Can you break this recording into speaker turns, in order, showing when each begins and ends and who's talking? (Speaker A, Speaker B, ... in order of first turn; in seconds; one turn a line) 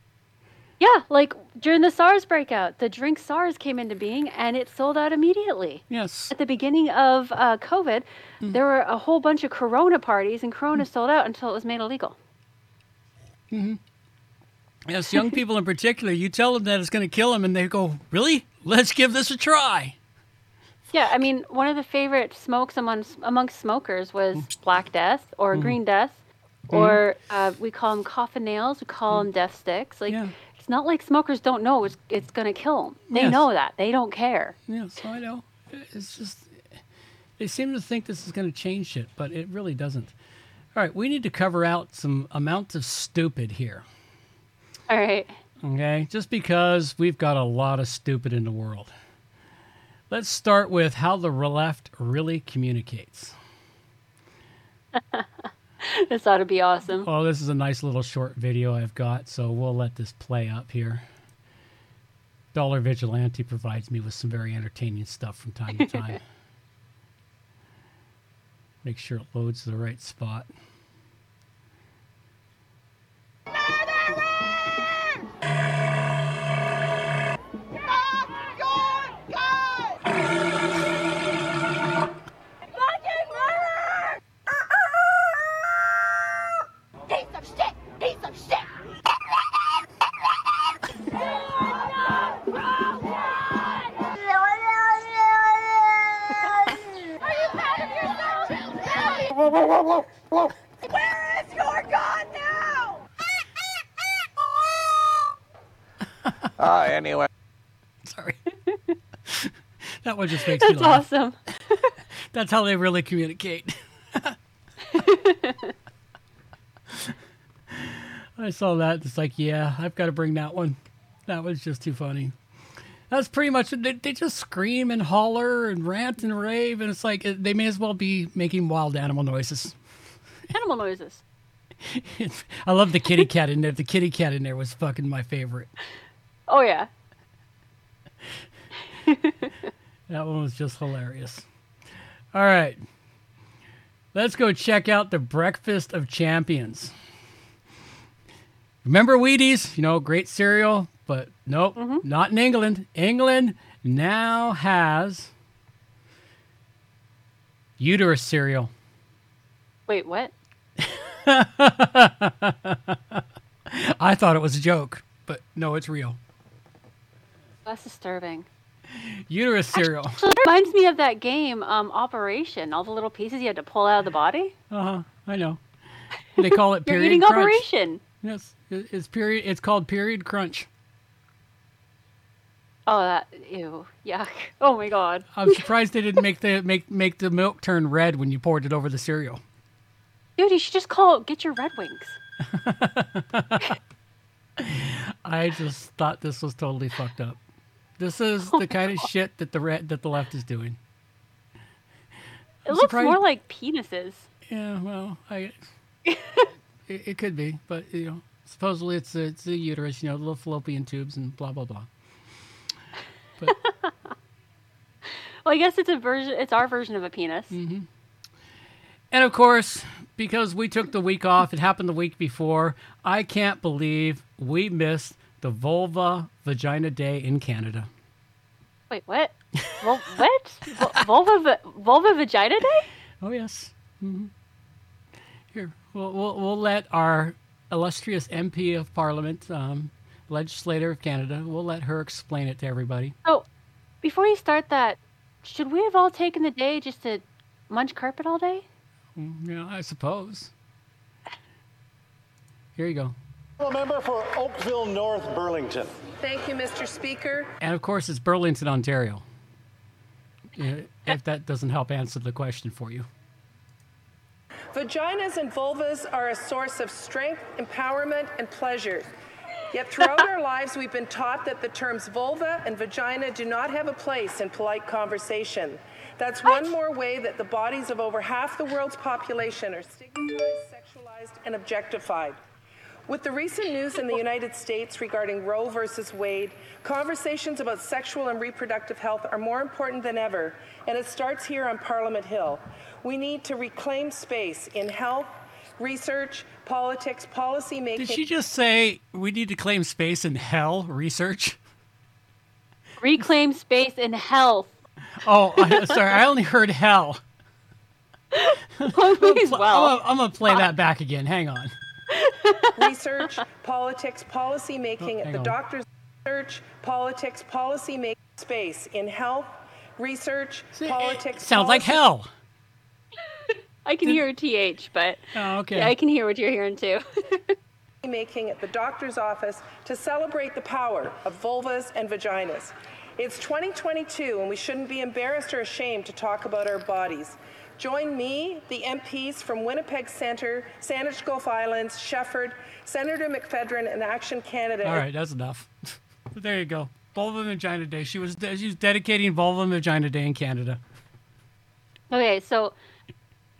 Speaker A: 0.8-12.2
Speaker B: 5.9-6.3
Speaker B: 13.5-13.8
Speaker B: 14.9-19.9
Speaker A: 20.9-26.2
Speaker B: 26.7-27.0
Speaker A: 26.7-34.6
Speaker B: 30.1-30.3
Speaker B: 33.1-33.4
Speaker B: 34.7-36.8
Speaker B: 37.4-40.1
Speaker B: 40.7-43.8
Speaker A: 44.9-45.4
Speaker B: 45.6-48.9
Speaker B: 50.1-53.4
Speaker A: 54.9-57.1
Speaker B: 56.9-61.0
Speaker B: 62.5-66.2
Speaker B: 68.8-70.5
Speaker C: 78.3-79.9
Speaker C: 82.8-83.9
Speaker C: 84.8-86.3
Speaker C: 87.1-88.7
Speaker C: 92.6-103.0
Speaker C: 104.5-105.3
Speaker B: 106.2-106.5
Speaker B: 108.0-108.4
Speaker B: 109.3-111.0
Speaker A: 110.5-111.9
Speaker B: 112.3-114.4
Speaker A: 114.9-115.7
Speaker B: 116.9-117.2
Speaker B: 117.7-122.3
Speaker B: 123.1-129.8
Speaker A: 130.5-131.2
Speaker B: 131.8-135.7
Speaker A: 136.5-136.9
Speaker A: 138.9-139.7
Speaker B: 140.1-141.4
Speaker B: 142.3-142.8
Speaker B: 144.1-146.9
Speaker B: 148.8-155.3
Speaker A: 151.8-152.0
Speaker B: 157.8-158.7
Speaker A: 159.9-160.3
Speaker B: 160.8-166.2
Speaker A: 167.6-168.5
Speaker B: 168.9-170.2
Speaker A: 169.8-174.5
Speaker B: 174.7-175.6
Speaker B: 176.3-177.7
Speaker A: 176.8-178.0
Speaker B: 178.2-180.7
Speaker A: 182.9-185.3
Speaker B: 185.3-189.4
Speaker A: 190.4-192.2
Speaker B: 192.4-193.7
Speaker B: 194.6-197.4
Speaker B: 198.0-200.8
Speaker A: 198.5-199.1
Speaker B: 202.6-203.2
Speaker A: 202.7-204.3
Speaker B: 204.5-205.6
Speaker A: 206.1-206.5
Speaker B: 206.9-211.9
Speaker A: 213.6-213.9
Speaker A: 215.1-217.6
Speaker B: 217.5-217.9
Speaker B: 219.1-227.9
Speaker A: 228.9-232.9
Speaker B: 229.6-229.9
Speaker B: 233.2-234.3
Speaker B: 235.5-243.1
Speaker A: 244.0-248.6
Speaker B: 249.2-250.5
Speaker B: 252.8-253.1
Speaker D: 253.6-256.0
Speaker E: 256.2-257.5
Speaker B: 257.6-259.2
Speaker B: 260.5-263.1
Speaker E: 264.7-269.1
Speaker E: 269.7-282.4
Speaker E: 283.1-298.2
Speaker B: 297.9-301.6
Speaker A: 303.0-304.8
Speaker B: 305.2-307.2
Speaker A: 305.6-306.0
Speaker A: 308.3-309.9
Speaker B: 308.8-311.7
Speaker A: 312.1-312.7
Speaker E: 312.7-322.0
Speaker B: 315.0-315.6
Speaker B: 320.7-322.3
Speaker A: 323.8-327.5
Speaker B: 325.3-325.9
Speaker E: 328.0-345.0
Speaker B: 344.8-350.8
Speaker A: 352.1-352.7